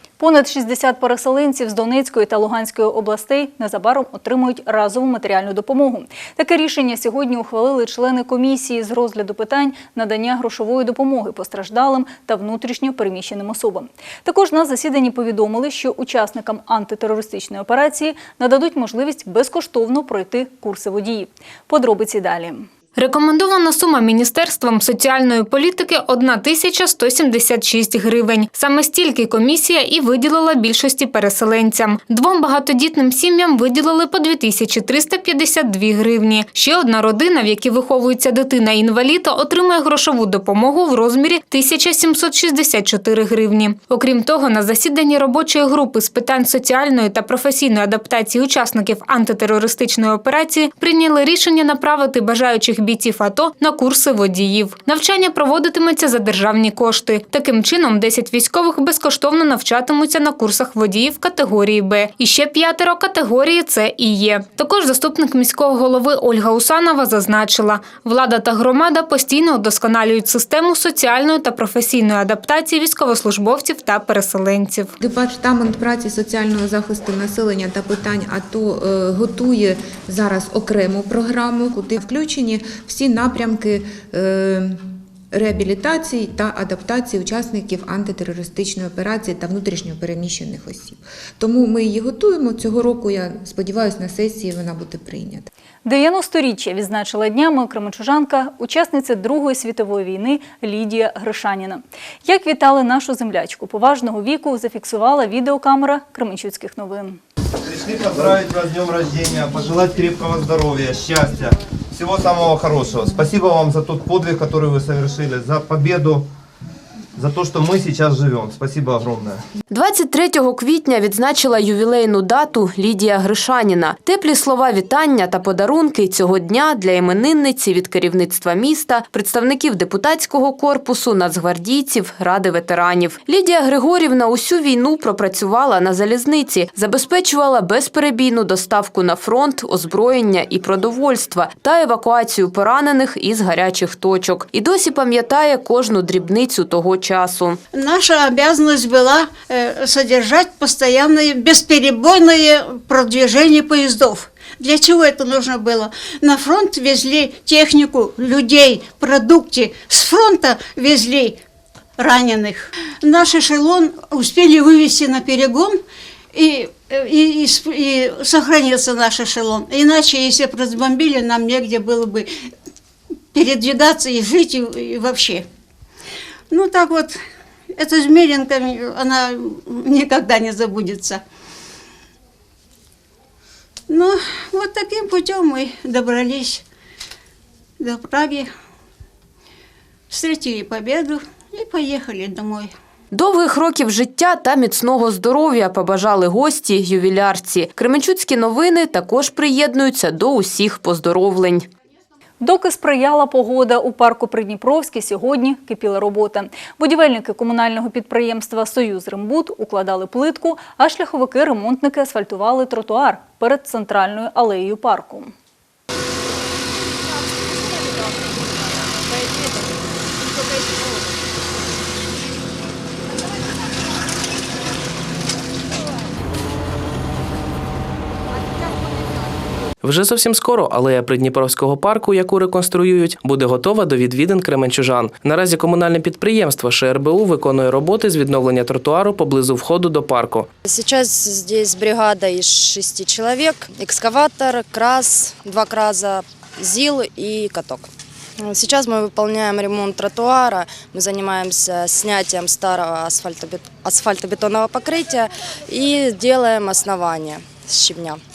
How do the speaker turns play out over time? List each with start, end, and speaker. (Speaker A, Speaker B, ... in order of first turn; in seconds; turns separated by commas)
Speaker A: 0.2-22.7, Speaker B: 22.9-74.9, Speaker C: 75.0-95.5, Speaker A: 95.8-107.2, Speaker D: 107.6-116.3, Speaker D: 117.2-119.4, Speaker E: 119.7-147.6, Speaker F: 147.7-161.4, Speaker F: 162.0-165.8, Speaker F: 166.3-172.3, Speaker F: 173.3-175.4, Speaker F: 176.5-177.2, Speaker F: 177.8-181.2, Speaker F: 183.9-186.6, Speaker F: 187.8-188.5, Speaker F: 190.1-192.7, Speaker E: 193.1-201.7, Speaker A: 202.4-215.3, Speaker G: 229.8-240.5, Speaker H: 240.6-258.2